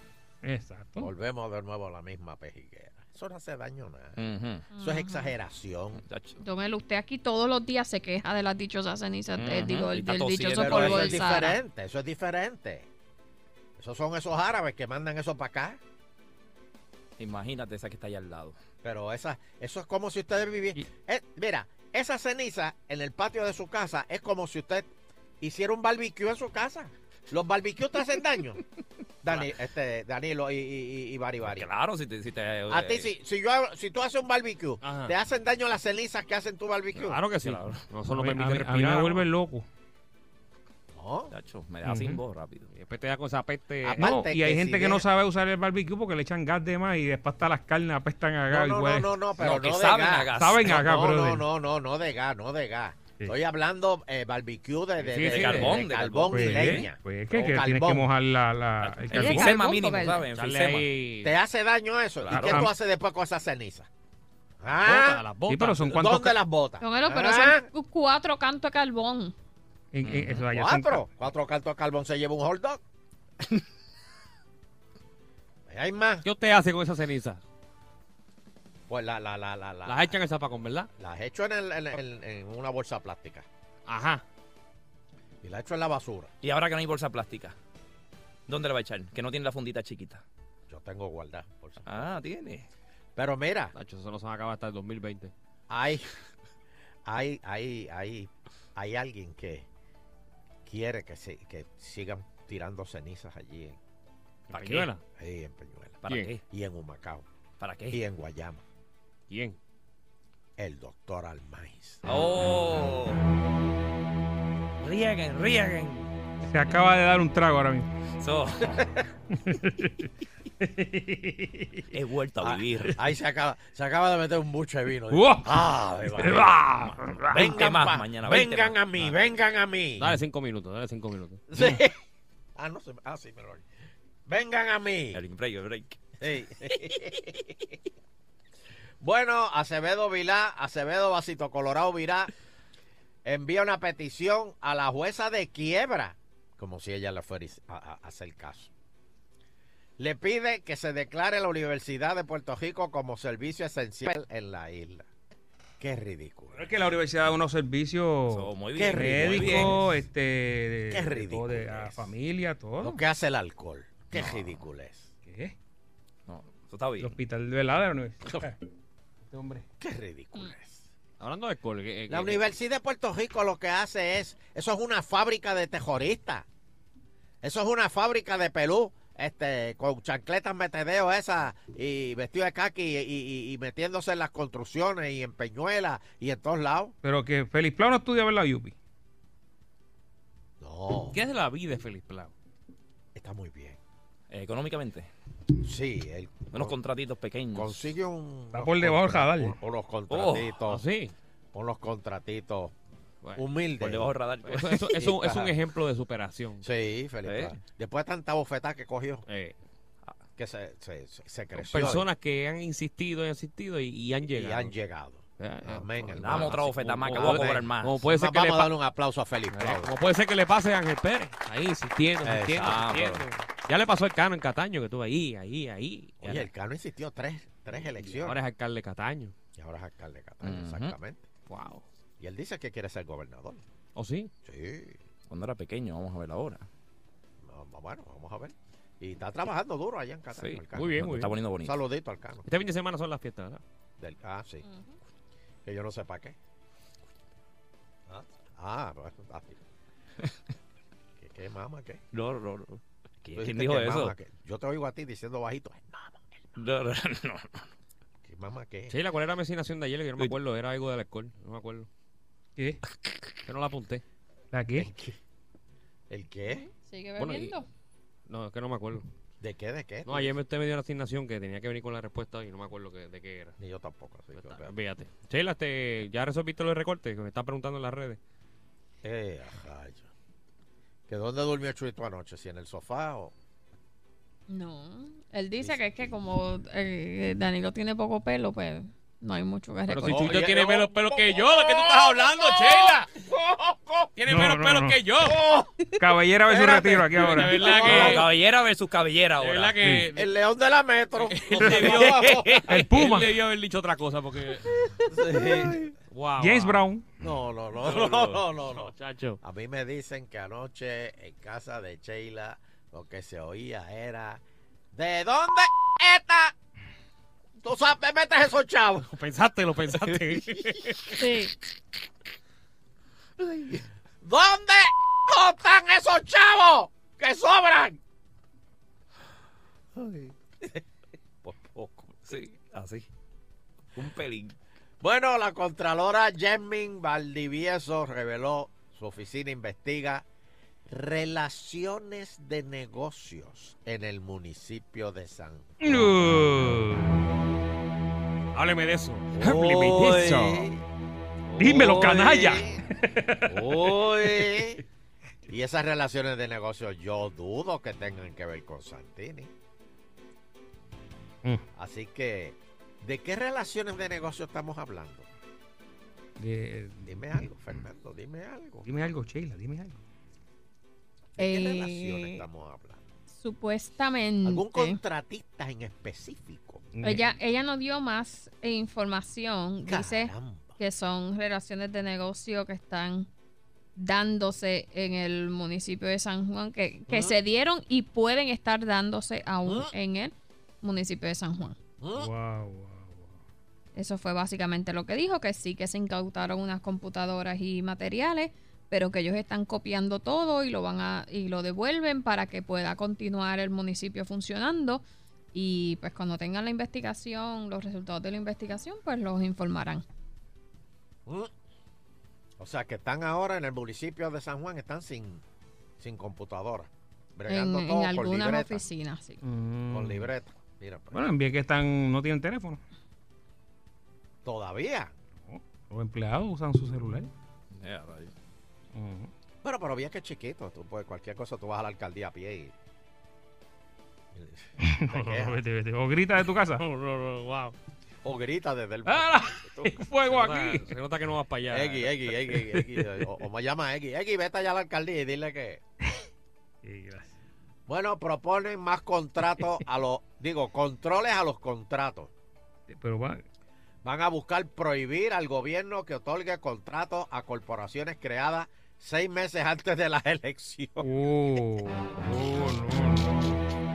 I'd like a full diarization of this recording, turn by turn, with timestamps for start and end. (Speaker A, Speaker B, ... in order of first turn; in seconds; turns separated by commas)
Speaker A: 0.4-1.1, Speaker B: 1.0-4.2, Speaker C: 4.2-4.7, Speaker D: 4.7-5.3, Speaker B: 4.8-6.0, Speaker C: 6.0-6.4, Speaker D: 6.4-11.6, Speaker C: 9.3-11.3, Speaker B: 10.5-12.9, Speaker B: 13.8-15.8, Speaker C: 17.2-18.6, Speaker B: 18.8-24.9, Speaker B: 25.4-28.6, Speaker B: 29.2-31.7, Speaker C: 31.4-33.1, Speaker B: 32.7-37.2, Speaker E: 34.8-35.1, Speaker E: 37.0-39.3, Speaker C: 37.5-37.8, Speaker A: 38.1-39.7, Speaker B: 40.9-41.3, Speaker C: 41.3-42.7, Speaker A: 41.8-42.2, Speaker E: 42.7-44.1, Speaker B: 43.8-45.0, Speaker A: 44.0-49.1, Speaker B: 48.5-58.1, Speaker C: 49.4-50.8, Speaker A: 50.4-51.4, Speaker E: 55.0-55.8, Speaker C: 55.1-56.9, Speaker A: 56.3-59.5, Speaker C: 58.8-60.9, Speaker D: 59.1-60.2, Speaker E: 60.3-61.3, Speaker B: 61.2-63.9, Speaker C: 62.2-62.6, Speaker A: 62.3-62.7, Speaker B: 64.6-65.2, Speaker E: 64.8-66.0, Speaker A: 65.5-66.4, Speaker B: 65.9-67.7, Speaker D: 66.8-69.3, Speaker A: 69.9-71.1, Speaker C: 70.0-70.5, Speaker B: 70.5-72.8, Speaker B: 75.7-76.2, Speaker E: 76.2-77.4, Speaker B: 78.9-80.2, Speaker E: 79.9-80.9, Speaker B: 81.0-83.5, Speaker E: 83.9-84.2, Speaker B: 85.4-86.3, Speaker C: 86.4-87.5, Speaker C: 88.5-90.2, Speaker B: 90.7-92.1, Speaker C: 91.9-92.7, Speaker B: 93.2-93.7, Speaker E: 93.8-95.3, Speaker B: 95.7-96.1, Speaker B: 97.1-99.7, Speaker B: 100.7-103.8, Speaker E: 104.5-105.0, Speaker C: 104.5-104.9, Speaker B: 105.2-106.0, Speaker C: 106.0-106.4, Speaker E: 106.1-106.3, Speaker B: 106.5-107.3, Speaker C: 107.6-108.0, Speaker B: 107.9-108.6, Speaker E: 109.3-109.6, Speaker B: 110.6-112.0, Speaker C: 112.0-113.3, Speaker C: 114.8-116.1, Speaker A: 116.5-117.9, Speaker C: 118.2-118.9, Speaker A: 119.4-120.1, Speaker A: 120.6-121.9, Speaker C: 121.9-123.0, Speaker B: 122.4-126.6, Speaker A: 125.1-125.5, Speaker A: 126.2-127.5, Speaker C: 126.2-129.2, Speaker B: 127.3-130.2, Speaker E: 130.0-131.4, Speaker B: 131.5-132.0, Speaker B: 132.6-133.6, Speaker B: 134.3-135.2, Speaker C: 135.1-136.0, Speaker B: 136.2-137.5, Speaker B: 139.0-142.3, Speaker B: 143.2-148.7, Speaker B: 150.0-155.1, Speaker B: 155.8-156.7, Speaker A: 156.6-163.0, Speaker C: 158.3-159.9, Speaker B: 158.8-159.8, Speaker B: 160.9-162.1, Speaker B: 162.8-165.1, Speaker C: 164.1-164.6, Speaker A: 165.2-165.5, Speaker C: 166.3-167.2, Speaker A: 167.0-168.5, Speaker A: 169.3-169.7, Speaker B: 169.8-170.9, Speaker E: 171.2-172.4, Speaker B: 172.1-176.5, Speaker B: 177.4-186.9, Speaker A: 187.0-188.8, Speaker B: 190.6-191.2, Speaker E: 191.1-192.3, Speaker B: 193.2-193.8, Speaker C: 194.3-195.1, Speaker B: 195.6-196.8, Speaker C: 196.5-197.8, Speaker B: 197.5-200.8, Speaker A: 198.5-199.6, Speaker C: 200.1-200.5, Speaker E: 200.7-201.1, Speaker B: 201.5-202.7, Speaker B: 203.3-204.1, Speaker C: 203.8-205.0, Speaker E: 204.4-206.7, Speaker B: 204.9-205.6, Speaker B: 206.6-209.2, Speaker C: 207.2-207.6, Speaker E: 209.3-209.6, Speaker B: 210.4-212.1, Speaker E: 211.6-214.7, Speaker B: 214.3-219.9, Speaker E: 215.4-218.7, Speaker C: 216.2-218.1, Speaker E: 219.5-226.5, Speaker B: 222.2-222.9, Speaker C: 222.6-223.2, Speaker B: 226.2-228.4, Speaker E: 228.1-229.3, Speaker B: 229.6-231.3, Speaker C: 230.4-230.9, Speaker E: 231.5-231.8, Speaker B: 232.2-233.6, Speaker E: 233.9-234.3, Speaker B: 234.4-235.0, Speaker C: 235.3-236.7, Speaker B: 237.4-241.0, Speaker C: 240.3-241.8, Speaker E: 240.7-241.3, Speaker B: 241.6-242.5, Speaker E: 242.5-243.6, Speaker B: 244.0-244.6, Speaker D: 244.6-244.9, Speaker B: 245.7-246.4, Speaker B: 248.1-249.6, Speaker B: 251.2-252.0, Speaker C: 252.1-254.2, Speaker B: 253.3-256.3, Speaker C: 256.6-257.7, Speaker B: 258.2-259.0, Speaker E: 258.9-261.9, Speaker E: 263.5-264.0, Speaker A: 264.5-264.9, Speaker B: 264.8-265.2, Speaker B: 266.1-266.7, Speaker D: 266.5-267.7, Speaker E: 267.2-267.5, Speaker E: 268.3-269.1, Speaker B: 269.4-270.4, Speaker E: 270.1-273.6, Speaker B: 273.6-274.7, Speaker E: 274.3-278.2, Speaker B: 279.0-280.1, Speaker B: 281.1-283.3, Speaker D: 284.5-290.3, Speaker E: 289.9-293.1, Speaker B: 290.1-294.1, Speaker E: 294.2-295.4, Speaker A: 294.3-295.0, Speaker B: 295.2-295.7, Speaker A: 296.0-298.0, Speaker B: 296.5-298.2, Speaker E: 297.1-298.3, Speaker C: 297.8-299.8, Speaker E: 299.4-300.3, Speaker A: 299.8-300.1, Speaker B: 300.1-302.7, Speaker E: 301.2-304.8, Speaker C: 301.7-302.6, Speaker A: 302.7-303.3, Speaker B: 305.1-305.8, Speaker E: 306.1-306.9, Speaker A: 306.4-307.1, Speaker B: 307.2-314.4, Speaker C: 307.8-308.4, Speaker E: 308.7-309.4, Speaker B: 314.9-316.5, Speaker B: 317.6-319.1, Speaker E: 319.1-321.1, Speaker D: 321.2-321.5, Speaker C: 323.4-323.8, Speaker B: 324.2-328.0, Speaker B: 331.5-332.1, Speaker C: 331.5-333.1, Speaker C: 333.9-334.6, Speaker B: 335.0-340.3, Speaker B: 340.9-345.7, Speaker A: 345.8-347.2, Speaker E: 348.5-350.6, Speaker B: 349.4-350.8, Speaker A: 351.6-353.6, Speaker B: 351.6-352.8, Speaker B: 353.5-354.8, Speaker B: 355.5-359.5, Speaker B: 361.8-365.3, Speaker A: 366.4-367.1, Speaker B: 367.1-368.9, Speaker A: 368.9-370.0, Speaker B: 371.4-373.0, Speaker D: 371.4-372.4, Speaker D: 373.3-375.0, Speaker B: 374.4-376.9, Speaker A: 376.9-377.2, Speaker D: 377.0-383.3, Speaker B: 379.9-380.8, Speaker D: 384.0-391.8, Speaker B: 387.1-387.3, Speaker B: 389.7-389.9, Speaker B: 392.0-392.3, Speaker A: 392.2-393.3, Speaker D: 393.9-405.0, Speaker D: 405.5-410.0, Speaker B: 412.6-415.4, Speaker B: 416.0-418.9, Speaker D: 417.5-419.4, Speaker A: 419.4-420.3, Speaker B: 419.9-421.2, Speaker A: 421.1-422.8, Speaker B: 424.4-425.1, Speaker A: 425.5-427.3, Speaker C: 427.7-428.3, Speaker A: 428.9-429.3, Speaker B: 429.6-432.7, Speaker B: 434.3-435.6, Speaker A: 434.8-436.8, Speaker E: 436.8-437.8, Speaker B: 438.2-439.9, Speaker A: 439.1-440.9, Speaker E: 440.3-442.1, Speaker B: 441.7-445.8, Speaker A: 446.8-447.4, Speaker B: 447.9-452.3, Speaker A: 452.9-453.4, Speaker B: 454.0-461.1, Speaker A: 461.0-463.6